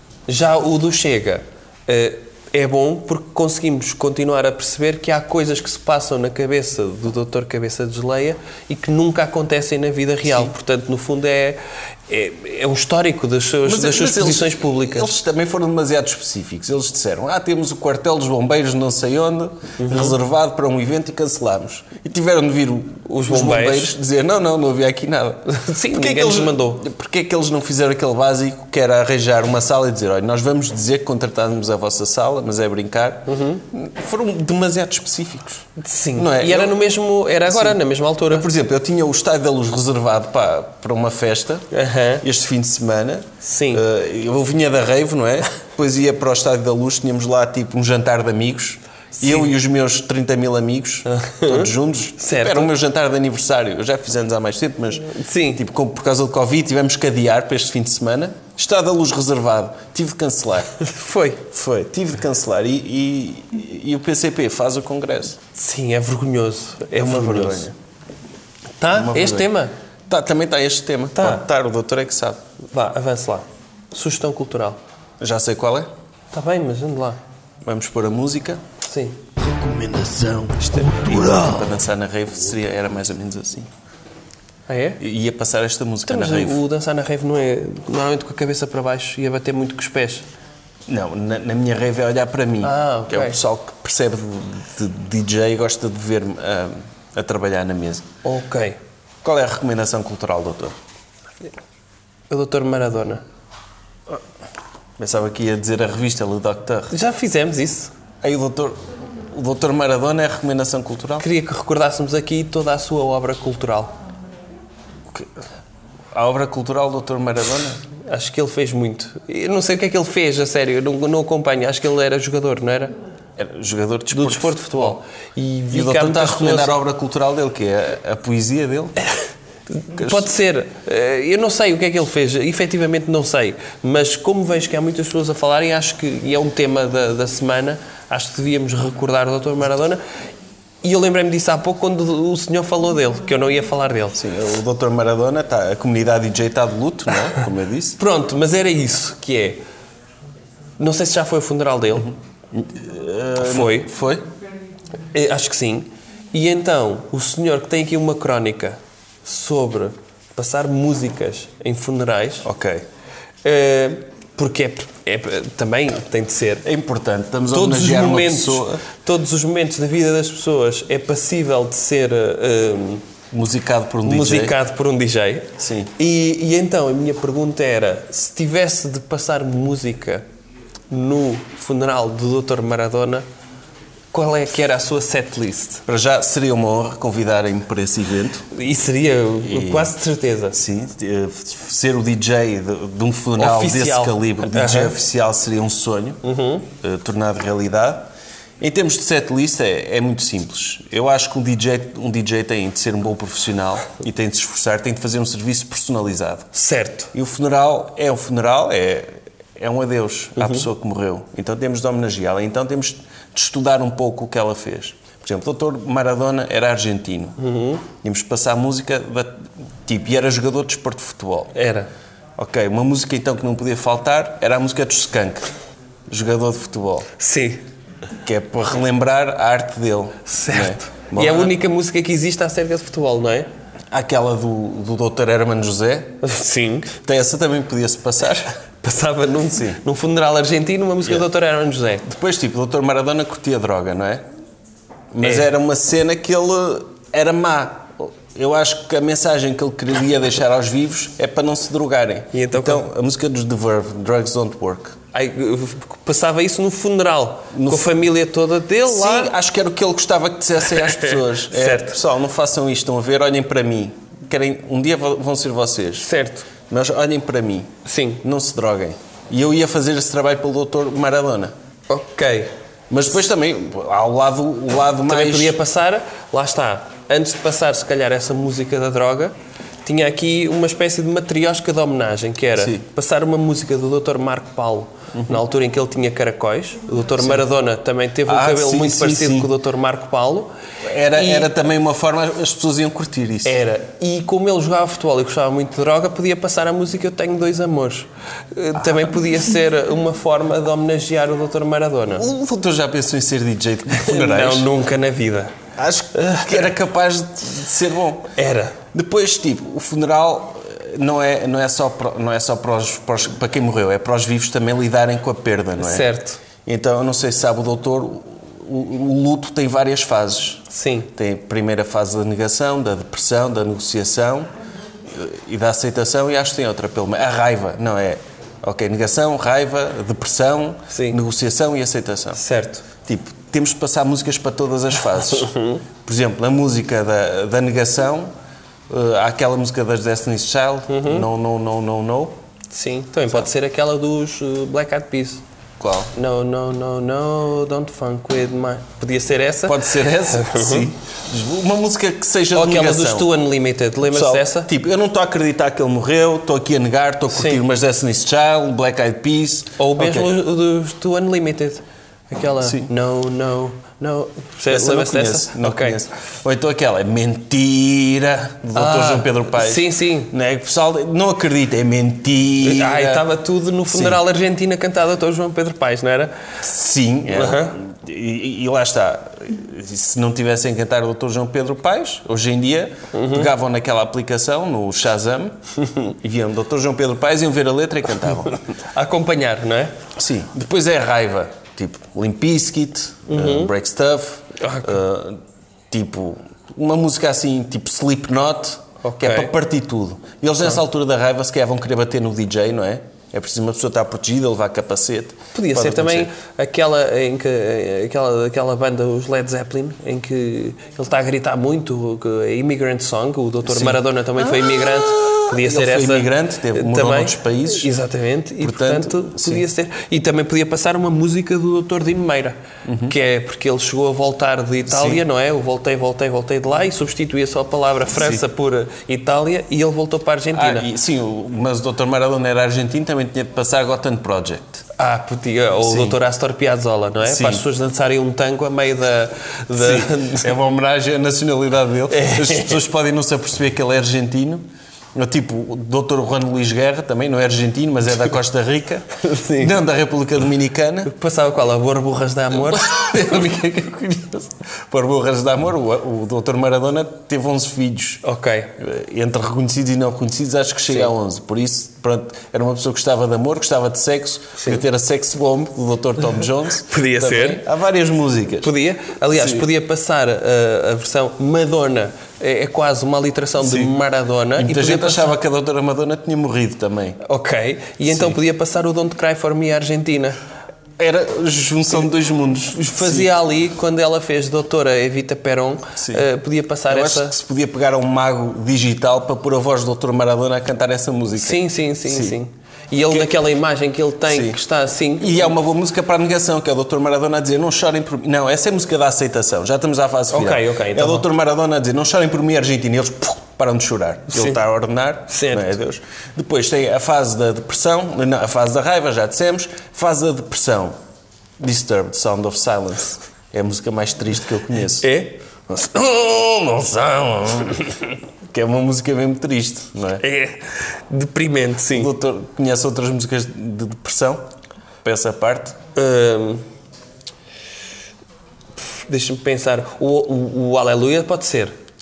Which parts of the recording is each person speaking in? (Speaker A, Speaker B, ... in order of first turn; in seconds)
Speaker A: 0.3-15.1, 19.8-20.2, 23.1-23.9, 25.5-26.8, 33.3-33.6, 35.8-38.5, 41.7-42.2, 43.4-43.8, 49.2-49.5, 51.1-52.7, 55.0-55.6, 60.8-61.5, 65.5-67.7, 68.8-69.7, 71.2-71.4, 72.7-74.8, 76.3-77.2, 78.8-79.2, 84.7-85.0, 86.1-90.3, 92.6-93.4, 98.2-98.8, 102.3-103.2, 106.9-107.9, 111.2-114.0, 118.0-123.0, 124.1-126.7, 129.8-140.0, 140.8-144.2, 148.0-149.6, 150.8-152.1, 153.4-153.9, 155.1-162.5, 163.4-166.7, 167.5-173.1, 174.1-180.2, 180.9-183.2, 184.1-185.8, 188.5-190.6, 193.4-195.0, 196.2-196.7, 206.5-207.1, 210.4-210.7, 217.4-217.8, 221.5-221.9, 227.2-227.6, 230.3-233.5, 236.2-236.9, 238.8-242.1, 252.3-252.8, 255.1-259.3, 260.7-262.0, 266.0-266.5, 267.9-268.2, 271.9-272.5, 275.1-290.5, 291.1-291.5, 293.4-302.3, 303.9-305.5, 306.1-306.6, 308.4-308.8, 315.8-316.4, 320.7-321.1, 330.9-331.2, 332.4-332.9, 335.3-335.8, 340.9-341.3, 342.7-345.4, 346.1-350.9, 352.5-354.7, 357.3-357.6, 359.8-366.0, 368.8-370.3, 372.6-376.4, 377.3-377.8, 383.1-383.5, 388.9-389.9, 393.3-393.7, 394.6-394.9, 399.0-399.5, 405.6-430.9, 435.0-440.5, 442.1-442.8, 449.2-449.8, 451.1-453.2, 458.2-458.7, 466.9-467.6, 468.6-475.3, 477.2-480.4, 482.8-487.4, 491.4-495.5, 500.3-501.3, 504.3-504.6, 505.3-505.8, 515.0-515.4, 520.2-522.1, 525.9-526.6, 528.8-531.8
Speaker B: 13.7-36.8, 37.5-41.7, 42.2-60.8, 61.5-65.4, 67.0-67.7, 68.9-69.5, 70.1-72.4, 75.2-75.9, 77.7-78.6, 80.6-83.7, 85.0-86.6, 90.9-98.1, 99.2-100.8, 105.0-106.9, 108.2-111.3, 116.1-117.8, 123.4-125.0, 125.7-129.0, 129.9-130.2, 144.2-148.0, 152.5-154.3, 162.4-162.8, 166.6-168.8, 173.3-174.6, 175.6-175.9, 185.9-188.5, 189.4-189.9, 190.5-206.5, 207.1-221.5, 222.4-225.5, 226.1-227.1, 228.2-231.5, 233.9-236.2, 237.0-238.6, 239.4-239.8, 242.1-244.2, 245.1-255.0, 257.5-258.0, 258.9-266.1, 266.7-271.5, 272.9-275.6, 282.6-282.8, 288.3-289.5, 290.8-293.6, 302.1-304.7, 305.8-308.3, 308.9-316.1, 316.6-324.5, 325.1-332.4, 333.0-338.3, 338.9-342.4, 345.8-346.1, 349.7-353.3, 354.1-360.3, 362.6-362.9, 364.7-373.2, 373.9-374.2, 376.6-388.6, 390.2-406.3, 413.7-417.9, 418.6-419.6, 422.9-423.1, 424.9-425.2, 430.5-434.8, 435.8-436.2, 437.2-437.6, 439.8-451.1, 452.6-458.2, 458.8-468.7, 469.4-469.6, 473.6-473.9, 474.6-477.2, 478.1-478.3, 481.0-483.3, 486.0-486.3, 486.9-492.4, 494.3-494.6, 495.2-510.9, 511.6-515.1, 515.7-520.2, 521.9-524.4, 525.0-525.8
Speaker C: 79.4-81.7